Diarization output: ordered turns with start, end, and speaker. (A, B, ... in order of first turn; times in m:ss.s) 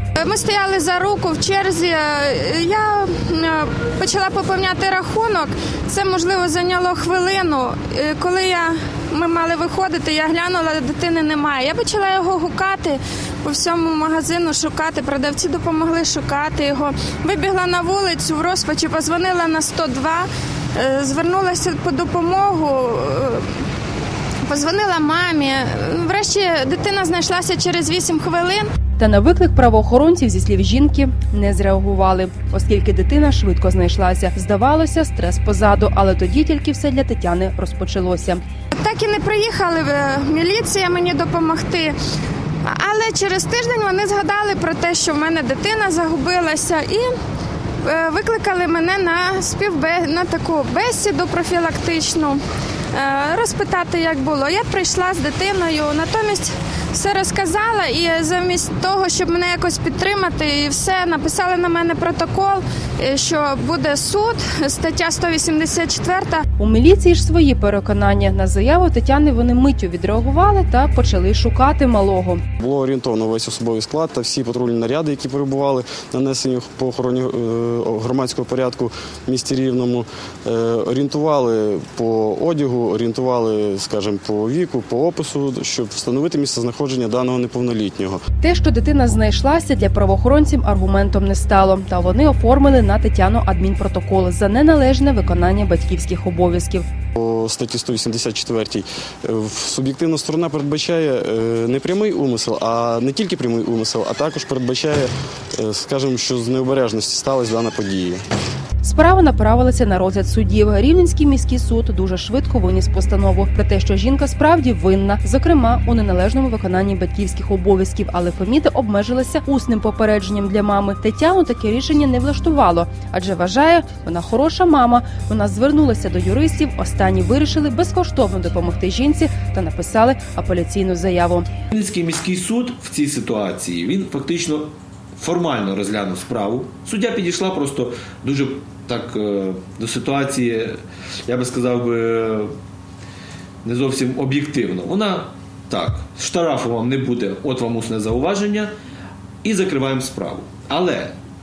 0:00.2-0:23.6 A
0:24.4-0:28.7 A
0:29.0-0:38.4 B
0:38.8-0:42.0 A
0:42.6-0:47.1 A
0:47.8-0:52.4 A
0:52.9-1:06.4 A
1:06.6-1:12.4 B
1:12.6-1:28.2 C
1:28.4-1:36.8 B
1:37.2-1:48.2 C
1:48.8-2:11.5 B
2:11.7-2:22.5 D
2:23.6-2:28.7 D
2:29.4-2:31.2 D